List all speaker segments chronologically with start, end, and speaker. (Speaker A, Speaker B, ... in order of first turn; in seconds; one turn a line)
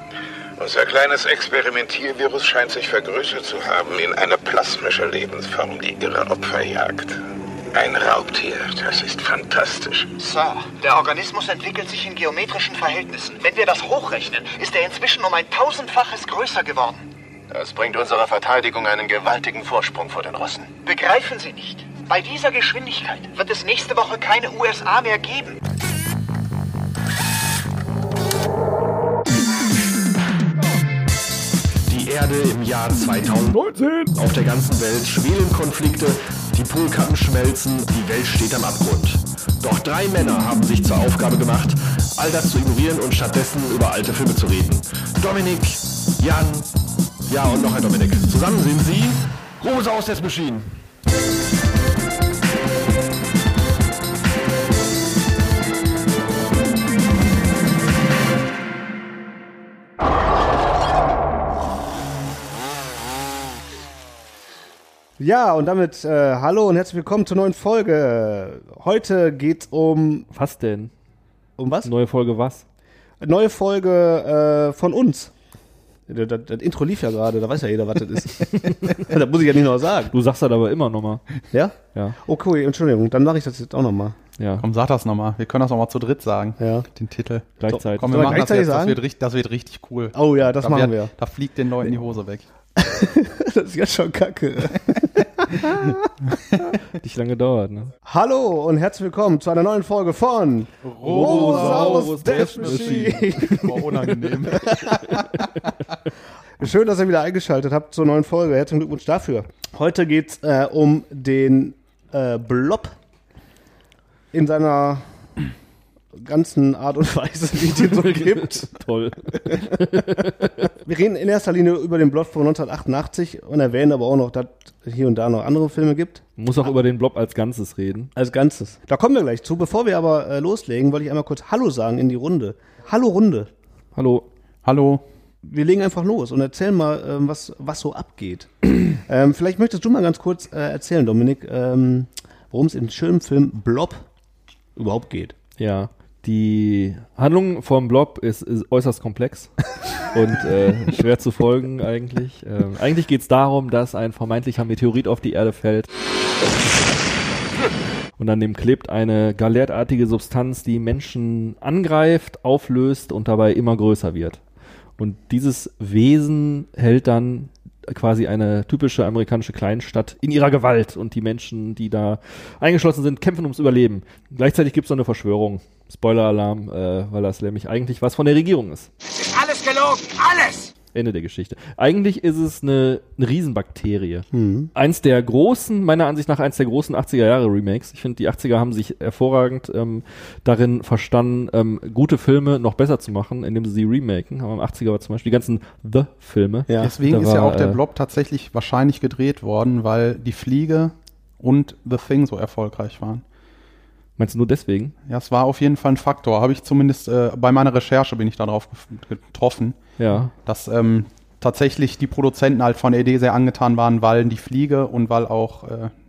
Speaker A: 0.6-7.2
Speaker A: 7.7-10.1
Speaker B: 10.2-17.1
Speaker C: 17.5-20.8
Speaker B: 20.8-25.6
Speaker D: 31.9-46.7
Speaker D: 47.3-50.7
Speaker E: 65.2-70.3
Speaker F: 70.3-70.9
Speaker E: 71.6-71.9
Speaker F: 71.8-72.6
Speaker E: 73.2-75.3
Speaker E: 76.1-80.1
Speaker F: 80.1-81.3
Speaker E: 81.5-84.2
Speaker F: 84.4-84.7
Speaker G: 84.6-92.4
Speaker E: 86.6-86.9
Speaker F: 87.6-88.5
Speaker E: 87.7-89.0
Speaker E: 90.1-91.1
Speaker E: 92.8-96.1
Speaker F: 97.0-97.9
Speaker E: 98.0-105.2
Speaker G: 100.8-105.2
Speaker F: 101.0-103.7
Speaker E: 106.6-112.9
Speaker E: 114.3-115.0
Speaker E: 116.1-118.7
Speaker F: 117.7-120.5
Speaker E: 119.4-119.9
Speaker E: 120.8-126.2
Speaker F: 126.4-128.1
Speaker E: 128.1-133.5
Speaker F: 133.9-134.3
Speaker G: 134.6-135.0
Speaker E: 135.4-144.0
Speaker E: 144.8-145.3
Speaker F: 145.6-149.5
Speaker F: 150.1-155.9
Speaker F: 158.2-164.4
Speaker F: 165.0-178.9
Speaker F: 180.9-197.8
Speaker E: 184.3-184.7
Speaker E: 196.7-196.9
Speaker G: 196.8-203.2
Speaker F: 204.2-204.9
Speaker G: 205.1-209.8
Speaker F: 210.0-210.3
Speaker G: 210.3-215.9